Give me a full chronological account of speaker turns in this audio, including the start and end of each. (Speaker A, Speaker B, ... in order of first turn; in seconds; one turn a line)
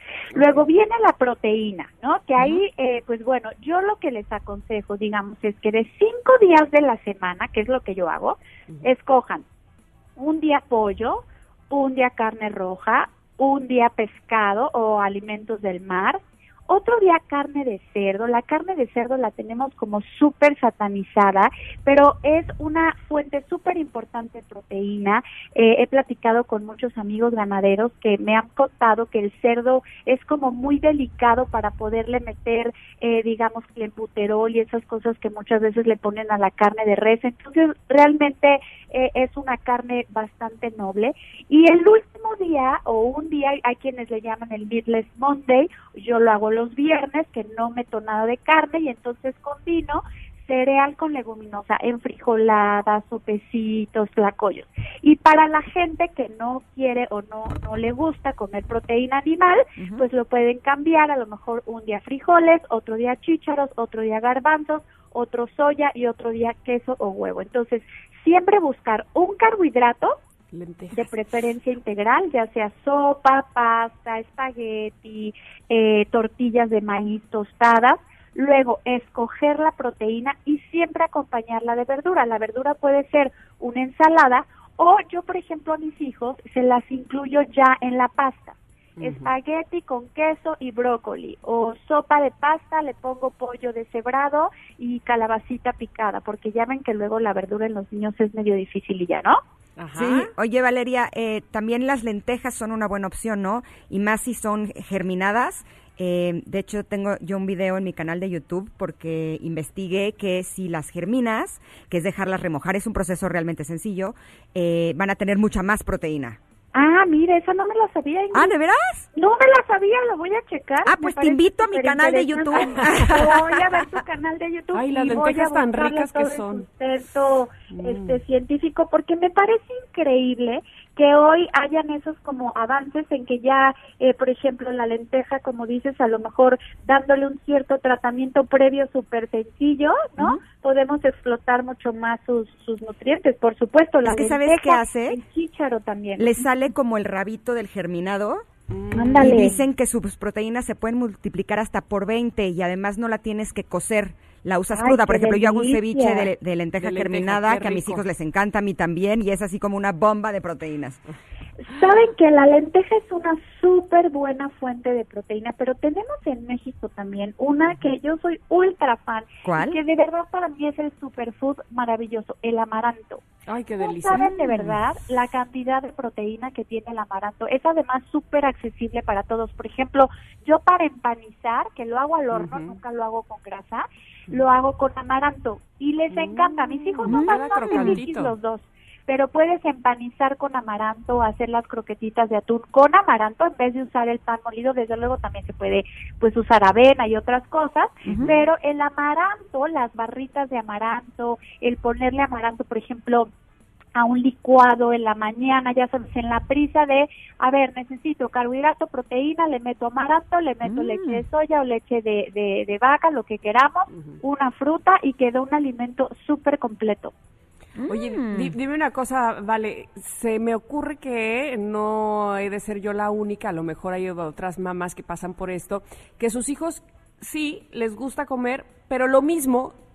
Speaker A: 0.3-9.4
Speaker B: 0.3-0.6
Speaker A: 10.2-70.2
Speaker C: 59.8-60.0
Speaker B: 70.5-71.1
Speaker A: 70.9-99.4
Speaker B: 89.0-89.3
Speaker B: 99.8-100.3
Speaker C: 99.9-116.4
Speaker A: 116.7-118.5
Speaker C: 118.3-119.1
Speaker A: 119.1-146.4
Speaker C: 120.8-123.8
Speaker B: 124.7-126.6
Speaker B: 127.7-128.2
Speaker C: 144.0-145.2
Speaker C: 146.2-148.4
Speaker B: 148.7-149.4
Speaker A: 148.9-149.6
Speaker C: 149.2-161.0
Speaker A: 154.7-156.3
Speaker B: 156.8-158.0
Speaker A: 161.6-173.2
Speaker C: 169.4-169.8
Speaker B: 173.5-174.7
Speaker A: 173.8-203.3
Speaker B: 182.3-182.7
Speaker B: 186.1-188.3
Speaker C: 187.1-188.0
Speaker C: 198.0-198.3
Speaker A: 203.9-217.1
Speaker C: 210.6-211.2
Speaker C: 217.8-218.5
Speaker B: 217.9-229.7